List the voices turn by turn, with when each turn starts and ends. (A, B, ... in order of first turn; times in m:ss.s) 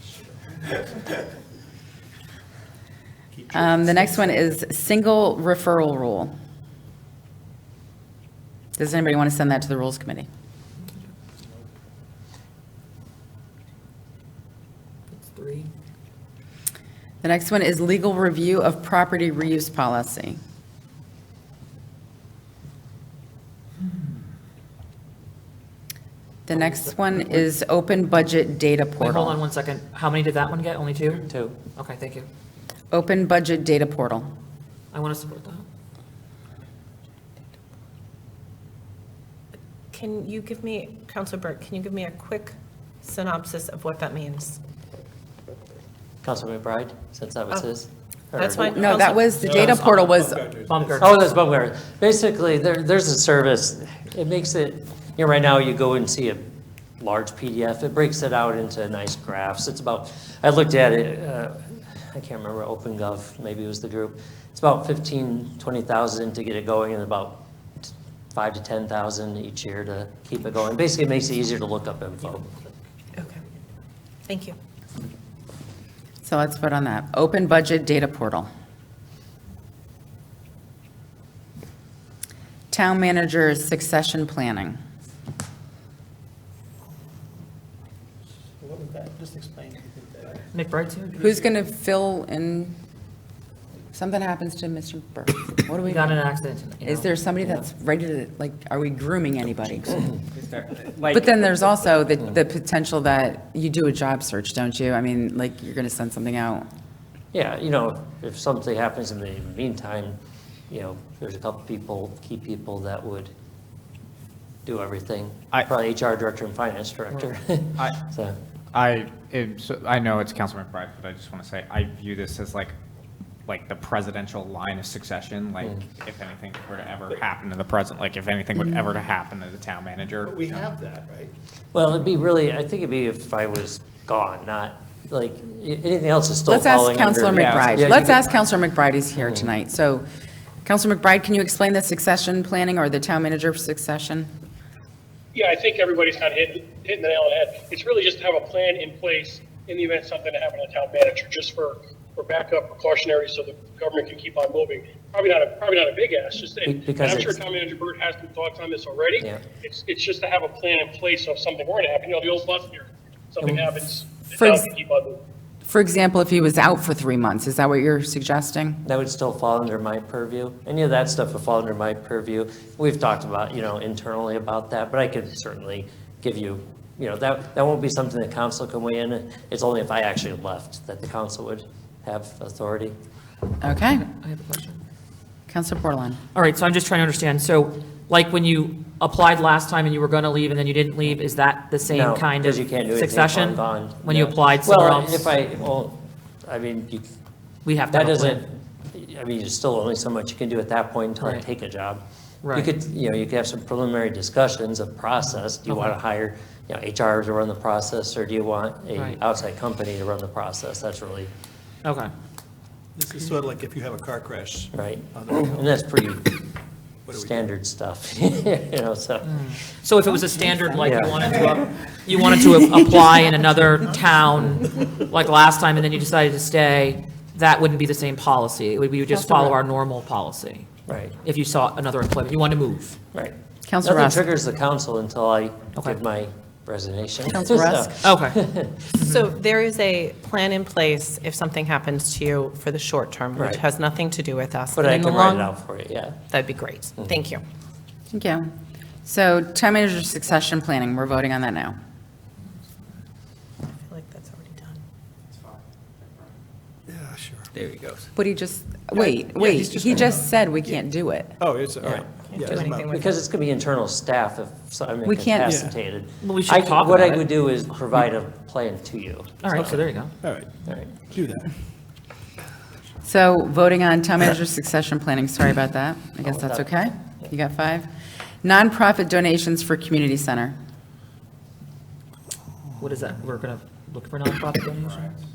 0:03.4-0:04.1 A
0:03.5-0:06.3 B
0:08.8-0:10.3 B
0:15.1-0:15.7 C
0:17.2-0:20.4 B
0:26.5-0:29.4 B
0:26.5-0:27.4 C
0:29.0-0:32.3 C
0:31.3-0:31.6 D
0:32.9-0:34.3 B
0:34.9-0:35.6 C
0:39.9-0:44.6 E
0:46.2-0:48.8 D
0:48.3-0:49.6 E
0:48.6-0:50.4 B
0:49.4-0:50.1 C
0:49.4-0:51.2 A
0:50.7-0:51.3 C
0:51.0-0:56.4 D
0:57.0-1:12.5 D
1:13.2-1:13.4 E
1:14.2-1:14.6 E
1:16.2-1:18.5 B
1:22.7-1:24.8 B
1:28.6-1:30.4 A
1:30.5-1:31.2 C
1:31.2-1:32.7 B
1:33.9-1:36.3 B
1:35.8-1:37.1 C
1:36.8-1:40.2 B
1:40.4-1:41.3 F
1:41.0-1:46.6 B
1:47.3-1:50.2 D
1:50.7-1:53.3 D
1:54.6-1:58.4 D
1:58.7-2:02.7 F
2:03.5-2:10.6 F
2:10.2-2:11.3 A
2:11.7-2:18.2 D
2:16.4-2:20.0 B
2:17.3-2:18.1 F
2:19.2-2:19.5 D
2:20.6-2:24.3 B
2:25.3-2:45.2 G
2:36.6-2:37.4 D
2:44.4-2:44.7 B
2:45.7-2:48.8 B
2:48.8-3:02.9 D
3:03.6-3:04.0 B
3:03.9-3:04.8 C
3:05.5-3:06.2 B
3:06.3-3:15.3 C
3:11.8-3:17.0 D
3:17.6-3:18.4 C
3:17.9-3:31.3 D
3:21.2-3:21.4 C
3:22.4-3:22.7 C
3:25.4-3:26.0 C
3:28.9-3:29.2 C
3:31.8-3:32.1 C
3:33.0-3:35.8 A
3:34.7-3:36.4 D
3:37.1-3:37.5 A
3:37.1-3:39.5 D
3:39.2-3:50.7 C
3:40.8-3:41.7 D
3:49.1-3:49.5 B
3:50.9-3:51.2 D
3:51.2-3:53.0 C
3:53.1-3:59.1 D
3:53.7-3:54.3 B
3:55.7-3:56.0 C
3:57.2-3:58.0 B
3:58.0-3:58.4 C
3:58.9-3:59.2 C
3:59.0-4:05.6 E
4:03.3-4:03.6 D
4:04.7-4:06.2 D
4:06.3-4:07.4 E
4:07.0-4:07.2 D
4:08.1-4:08.5 B
4:09.0-4:11.8 B
4:13.6-4:14.8 E
4:16.9-4:17.9 A
4:18.1-4:21.4 B
4:19.0-4:20.8 A
4:21.4-4:23.0 A
4:21.8-4:29.7 D
4:22.3-4:23.2 E
4:25.0-4:25.8 B
4:25.5-4:25.8 A
4:26.2-4:27.6 C
4:29.4-4:30.1 C
4:29.5-4:30.5 A
4:30.7-4:31.0 D
4:31.1-4:31.5 A
4:33.0-4:37.9 B
4:36.2-4:36.7 D
4:38.4-4:40.6 B
4:42.8-4:45.1 C